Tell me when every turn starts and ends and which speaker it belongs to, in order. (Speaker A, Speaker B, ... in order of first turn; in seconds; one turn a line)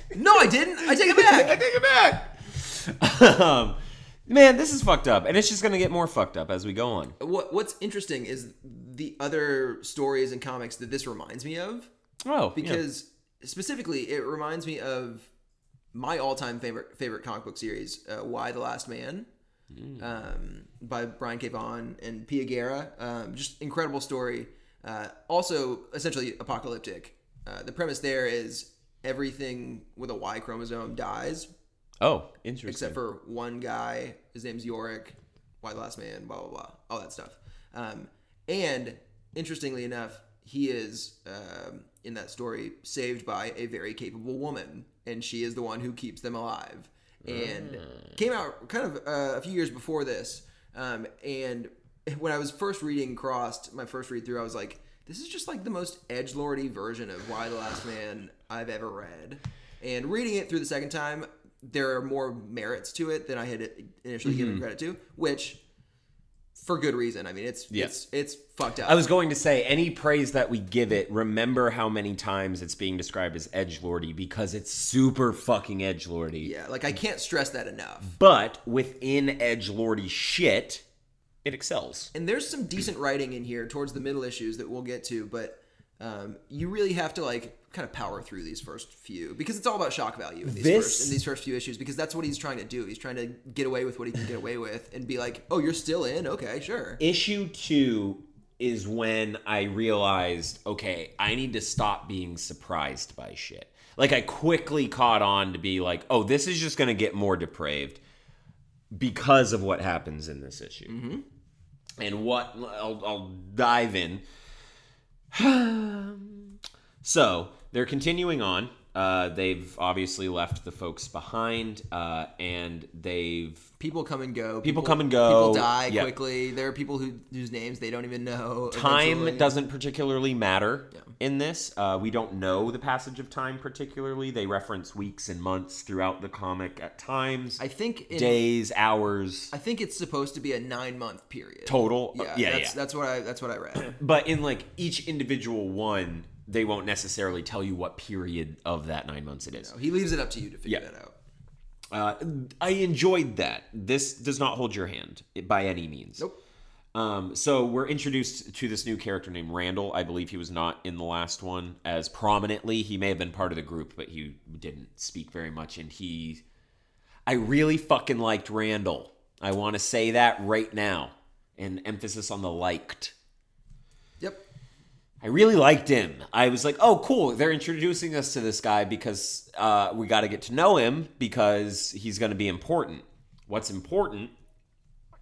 Speaker A: 0.1-1.6
Speaker B: 0.8-7.2
Speaker A: 7.2-11.9
Speaker B: 12.2-12.8
Speaker A: 12.6-15.3
Speaker A: 15.9-19.3
Speaker B: 19.8-20.0
Speaker A: 20.0-31.5
Speaker B: 32.0-33.0
Speaker A: 32.7-65.6
Speaker B: 47.2-48.1
Speaker B: 64.2-64.6
Speaker A: 66.6-69.0
Speaker B: 68.8-76.5
Speaker A: 76.4-78.1
Speaker B: 78.1-80.8
Speaker B: 81.4-82.1
Speaker A: 82.1-97.0
Speaker B: 90.4-91.2
Speaker B: 97.0-108.0
Speaker B: 108.9-110.9
Speaker A: 110.9-111.2
Speaker B: 112.0-114.2
Speaker B: 115.3-123.7
Speaker A: 123.8-129.5
Speaker B: 124.6-126.1
Speaker B: 128.7-137.6
Speaker A: 137.6-138.4
Speaker B: 138.1-139.5
Speaker A: 139.5-143.9
Speaker B: 141.7-142.8
Speaker B: 143.8-149.7
Speaker A: 149.5-151.1
Speaker B: 151.9-156.2
Speaker B: 156.9-166.4
Speaker B: 167.3-173.1
Speaker B: 175.2-184.3